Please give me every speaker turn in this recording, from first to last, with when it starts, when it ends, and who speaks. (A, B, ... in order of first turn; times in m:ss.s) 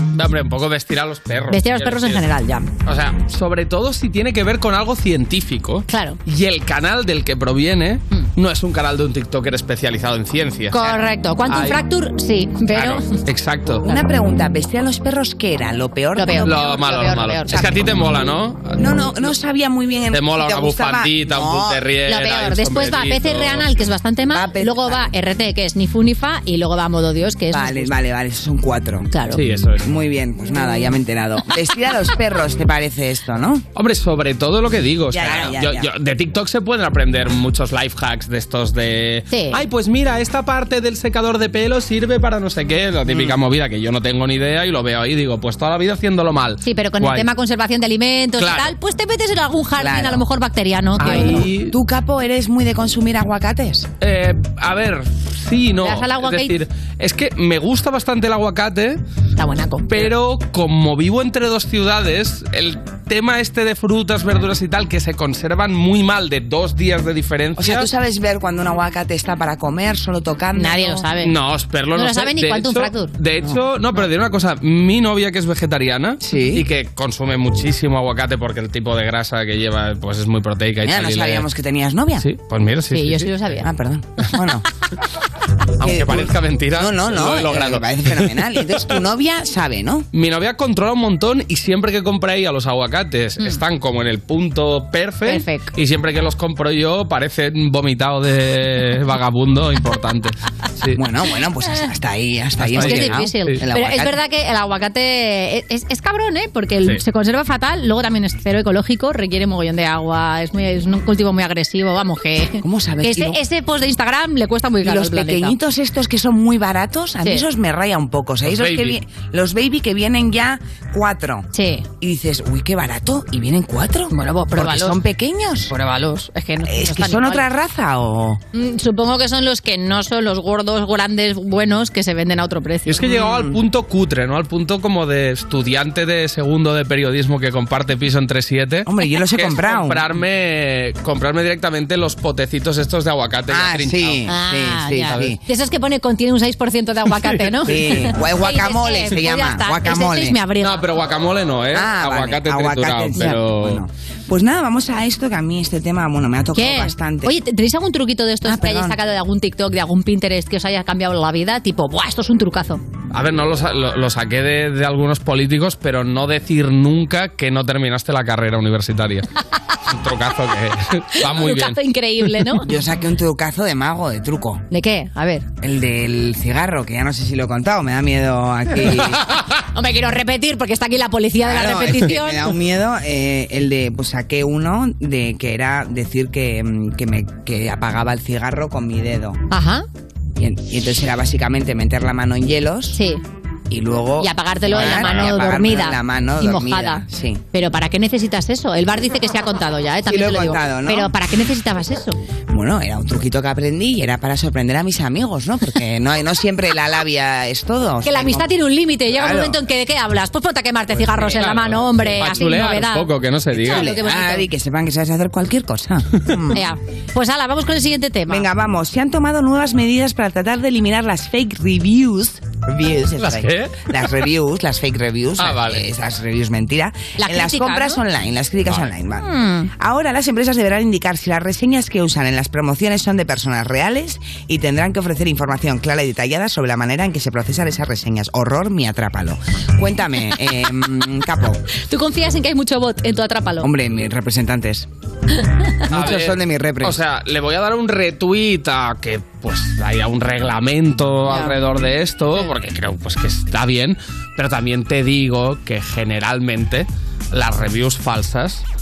0:00.1-0:02.3 A
0:01.5-0:02.7 B
0:02.8-0:11.8 A
0:05.9-0:06.2 B
0:10.7-0:13.2 B
0:12.7-0:13.9 A
0:13.8-0:18.0 C
0:16.2-0:17.6 B
0:16.4-0:18.8 A
0:18.8-0:21.8 C
0:20.1-0:23.7 A
0:22.1-0:27.9 B
0:24.3-0:25.1 C
0:27.5-0:29.1 C
0:29.1-0:29.4 B
0:29.3-0:29.9 A
0:29.8-0:33.6 C
0:33.7-0:47.3 A
0:35.1-0:35.9 C
0:39.3-0:39.6 B
0:43.1-0:43.4 C
0:46.6-0:51.5 B
0:48.4-0:48.8 A
0:49.8-0:50.2 C
0:51.0-0:51.7 A
0:51.0-0:53.9 C
0:54.0-0:59.0 A
0:55.8-0:56.6 B
0:59.4-1:00.1 B
0:59.9-1:07.9 A
1:07.6-1:11.1 C
1:10.6-1:11.4 B
1:11.2-1:21.5 A
1:11.9-1:13.1 B
1:16.2-1:16.6 C
1:20.8-1:22.3 C
1:22.2-1:23.4 A
1:22.9-1:23.7 B
1:23.6-1:24.6 C
1:25.8-1:28.2 A
1:25.8-1:30.1 C
1:30.1-1:41.0 A
1:35.2-1:35.7 B
1:40.9-1:44.2 C
1:42.6-1:43.6 A
1:42.7-1:55.6 B
1:52.6-1:53.4 C
1:54.8-2:05.7 C
1:58.4-1:59.0 A
2:01.5-2:01.8 B
2:04.1-2:05.0 B
2:05.7-2:07.4 B
2:06.6-2:08.4 C
2:08.5-2:13.3 B
2:12.9-2:24.2 A
2:13.2-2:13.6 C
2:18.8-2:20.1 C
2:23.5-2:25.4 C
2:24.3-2:30.8 B
2:27.2-2:27.5 A
2:27.6-2:30.4 C
2:30.6-2:33.8 A
2:31.7-2:37.3 C
2:36.5-2:42.8 B
2:38.4-2:39.0 C
2:43.1-2:49.3 A
2:49.9-2:51.8 A
2:51.2-2:52.7 B
2:52.6-2:54.6 C
2:54.7-2:55.4 B
2:55.6-2:59.3 C
2:59.7-3:02.5 B
3:01.4-3:09.4 C
3:09.5-3:09.8 B
3:10.4-3:13.0 C
3:12.9-3:13.2 B
3:13.7-3:17.4 C
3:14.2-3:22.2 B
3:20.0-3:21.1 C
3:22.5-3:28.5 C
3:28.0-3:34.5 B
3:29.1-3:29.6 C
3:31.0-3:33.9 A
3:33.5-3:36.6 C
3:36.5-3:38.4 B
3:38.3-4:01.6 C
3:43.2-3:43.7 A
3:45.4-3:45.9 A
3:47.2-3:48.0 B
3:49.2-3:49.7 B
4:01.9-4:03.7 B
4:03.6-4:04.9 C
4:05.9-4:07.0 C
4:05.9-4:18.6 A
4:11.3-4:11.5 B